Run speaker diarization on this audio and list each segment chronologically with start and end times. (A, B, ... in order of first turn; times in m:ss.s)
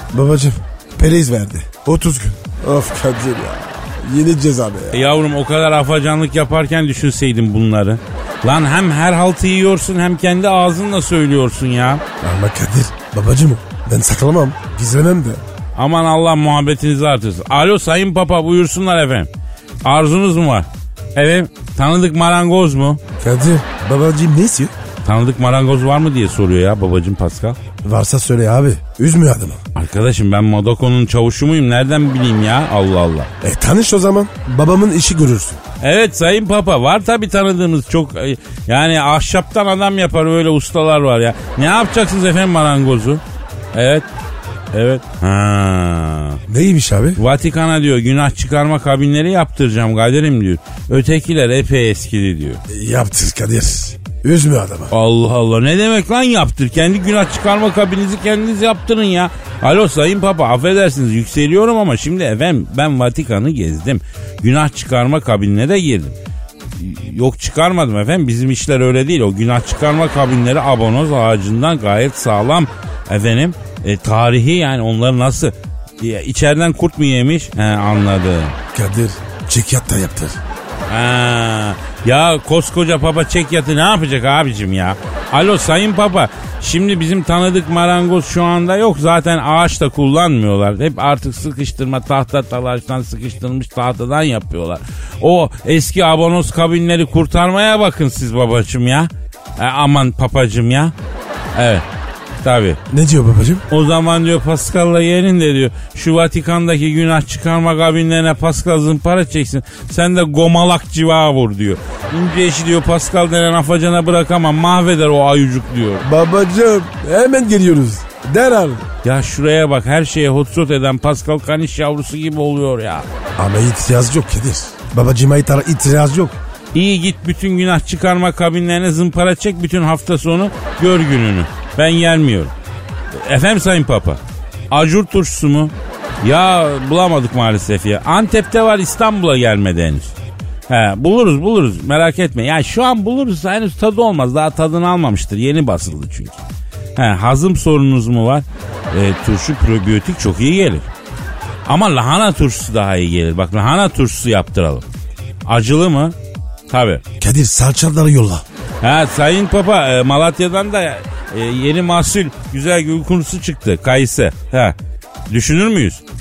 0:00.1-0:05.1 A
0:04.9-0:12.0 B
0:12.2-0:15.4 A
0:15.8-0:19.3 B
0:19.8-0:23.0 B
0:23.2-0:24.7 A
0:25.0-0:27.6 B
0:27.8-0:29.6 A
0:29.7-0:33.3 B
0:33.4-0:35.6 A
0:35.8-0:43.2 B
0:43.7-0:44.1 B
0:44.7-0:46.4 B
0:46.5-0:47.2 A
0:47.2-0:52.6 B
0:52.7-0:54.9 A
0:54.9-1:06.2 B
1:06.8-1:18.6 B
1:18.7-1:20.4 A
1:20.9-1:40.9 B
1:41.5-1:41.8 B
1:42.4-1:42.8 B
1:42.9-1:43.6 A
1:43.7-1:56.0 B
1:56.0-1:58.8 A
1:59.0-2:03.1 B
2:03.4-2:06.4 A
2:06.7-2:12.5 B
2:13.1-2:20.2 B
2:20.7-2:26.4 B
2:27.0-2:30.9 B
2:31.6-2:34.8 B
2:35.4-2:36.2 B
2:36.7-2:37.0 B
2:37.2-2:38.4 A
2:38.8-2:44.8 B
2:45.3-2:46.0 B